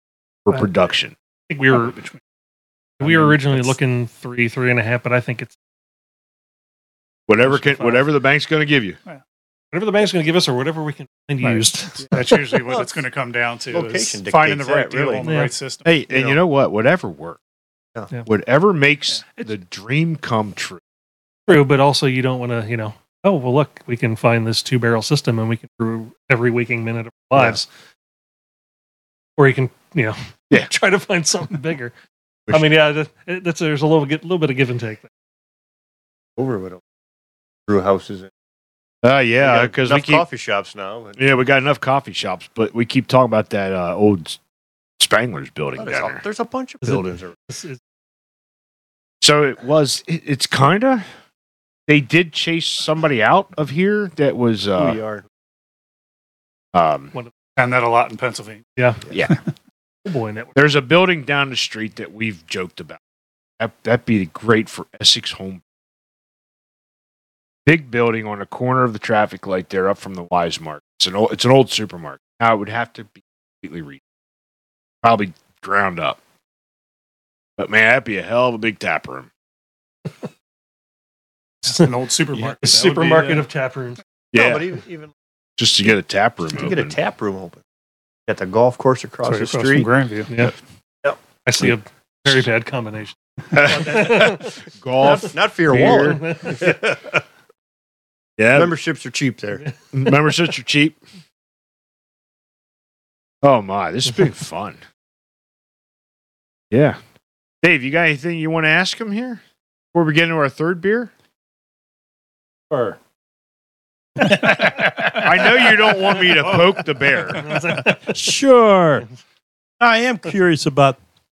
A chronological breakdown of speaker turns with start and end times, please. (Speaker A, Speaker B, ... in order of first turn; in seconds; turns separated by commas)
Speaker A: 0.4-1.1, Speaker B: 1.5-2.0, Speaker B: 3.0-5.5, Speaker A: 7.3-9.0, Speaker B: 7.5-8.0, Speaker B: 9.7-12.1, Speaker C: 11.4-15.9, Speaker D: 12.0-12.9, Speaker D: 13.7-15.3, Speaker B: 15.2-15.5, Speaker A: 15.8-17.4, Speaker D: 16.1-16.4, Speaker A: 18.2-20.8, Speaker B: 21.5-27.7, Speaker B: 29.4-31.9, Speaker B: 32.5-35.1, Speaker D: 36.4-36.8, Speaker D: 37.7-38.3, Speaker A: 39.0-40.2, Speaker D: 39.4-41.2, Speaker A: 41.2-44.4, Speaker A: 45.0-46.2, Speaker D: 45.8-47.3, Speaker B: 46.8-47.8, Speaker A: 49.2-51.0, Speaker A: 51.9-55.0, Speaker D: 54.8-55.2, Speaker A: 56.7-57.1, Speaker C: 57.6-58.6, Speaker B: 58.8-59.0, Speaker A: 59.1-59.3, Speaker B: 60.0-60.6, Speaker A: 60.5-63.0, Speaker A: 63.6-65.6, Speaker A: 67.7-74.0, Speaker A: 75.0-76.2, Speaker A: 77.6-79.3, Speaker B: 81.6-81.9, Speaker C: 81.7-83.4, Speaker B: 82.6-84.0, Speaker A: 84.3-84.7, Speaker D: 84.3-85.1, Speaker A: 85.6-87.0, Speaker D: 86.5-87.6, Speaker D: 88.3-89.9, Speaker C: 89.2-90.3, Speaker B: 90.3-90.5, Speaker B: 91.4-96.8, Speaker A: 93.5-96.2, Speaker D: 95.0-97.2, Speaker A: 98.4-98.7, Speaker D: 98.5-99.7, Speaker A: 99.9-101.0, Speaker A: 103.4-104.8, Speaker A: 106.7-107.0, Speaker A: 107.6-109.4, Speaker A: 109.9-111.1, Speaker E: 112.7-113.0, Speaker E: 114.2-115.7, Speaker A: 115.0-117.5, Speaker B: 117.3-118.2, Speaker E: 117.8-119.1, Speaker E: 119.8-121.0